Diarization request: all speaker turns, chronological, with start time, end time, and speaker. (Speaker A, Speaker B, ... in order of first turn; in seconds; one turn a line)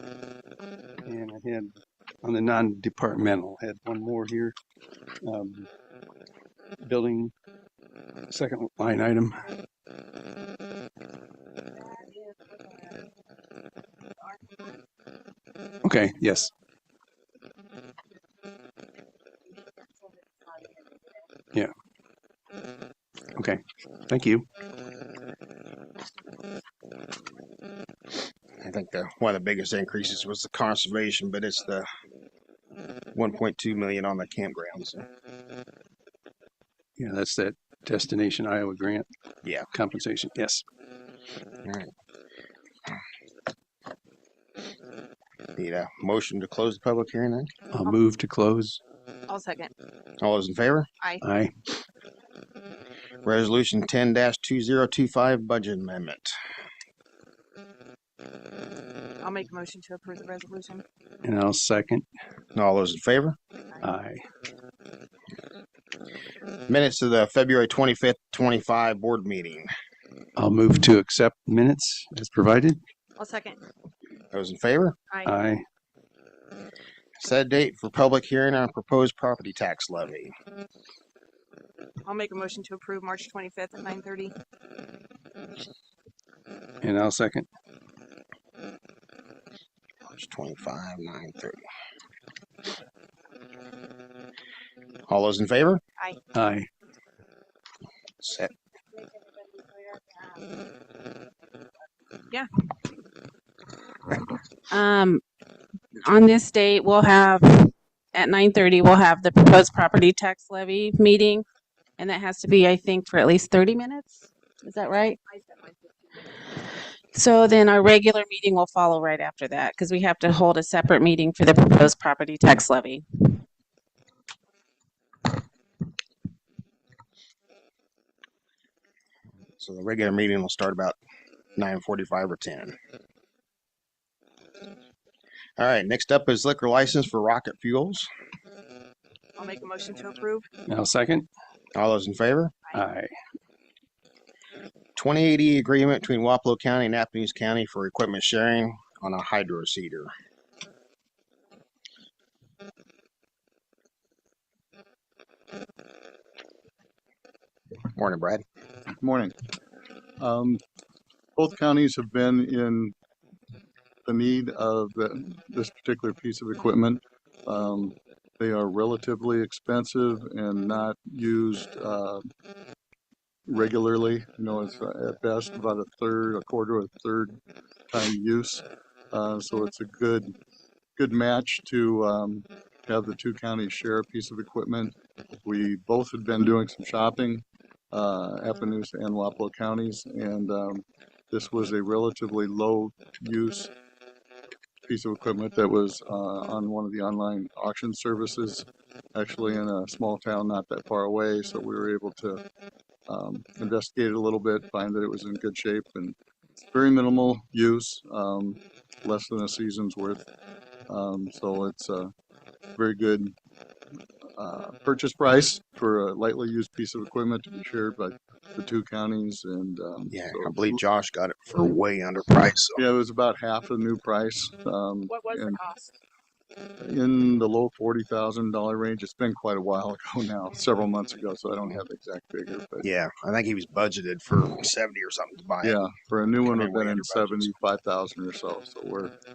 Speaker A: 1.0-4.5
Speaker A: 5.2-5.7
Speaker A: 6.8-7.3
Speaker A: 8.3-9.5
Speaker A: 15.8-16.5
Speaker A: 23.3-24.5
Speaker B: 28.6-31.9
Speaker B: 33.1-35.0
Speaker A: 37.0-39.1
Speaker A: 39.7-40.6
Speaker B: 41.6-41.9
Speaker B: 45.5-47.5
Speaker A: 47.7-48.8
Speaker C: 49.3-49.7
Speaker B: 50.2-50.9
Speaker A: 51.2-51.5
Speaker B: 53.2-56.4
Speaker C: 59.2-60.8
Speaker A: 61.2-62.0
Speaker B: 62.5-63.4
Speaker A: 63.8-64.2
Speaker B: 66.7-69.7
Speaker A: 70.3-72.8
Speaker C: 73.2-73.6
Speaker B: 74.3-75.0
Speaker A: 75.2-75.6
Speaker B: 77.2-80.3
Speaker C: 82.0-84.3
Speaker A: 86.8-87.5
Speaker B: 90.1-91.6
Speaker B: 95.1-95.8
Speaker A: 96.3-96.7
Speaker B: 98.2-98.5
Speaker D: 104.7-105.2
Speaker D: 106.0-111.4
Speaker D: 112.0-115.2
Speaker C: 115.2-116.3
Speaker D: 117.1-123.4
Speaker B: 129.6-131.0
Speaker B: 131.6-132.7
Speaker B: 135.6-138.1
Speaker C: 139.4-140.4
Speaker A: 140.7-141.3
Speaker B: 141.7-142.5
Speaker A: 142.7-143.1
Speaker B: 144.9-150.1
Speaker B: 157.9-158.4
Speaker E: 159.0-159.3
Speaker E: 160.2-160.6
Speaker E: 161.3-162.9
Speaker E: 164.0-172.3
Speaker E: 173.5-177.4
Speaker E: 177.9-180.3
Speaker E: 180.9-193.7
Speaker E: 194.8-202.4
Speaker E: 203.1-210.2
Speaker E: 210.9-212.1
Speaker E: 212.7-213.3
Speaker E: 214.3-220.8
Speaker B: 220.1-222.8
Speaker E: 222.8-225.6
Speaker C: 225.1-225.9
Speaker E: 226.8-232.9
Speaker B: 232.8-235.8
Speaker E: 235.6-239.1
Speaker B: 236.4-237.5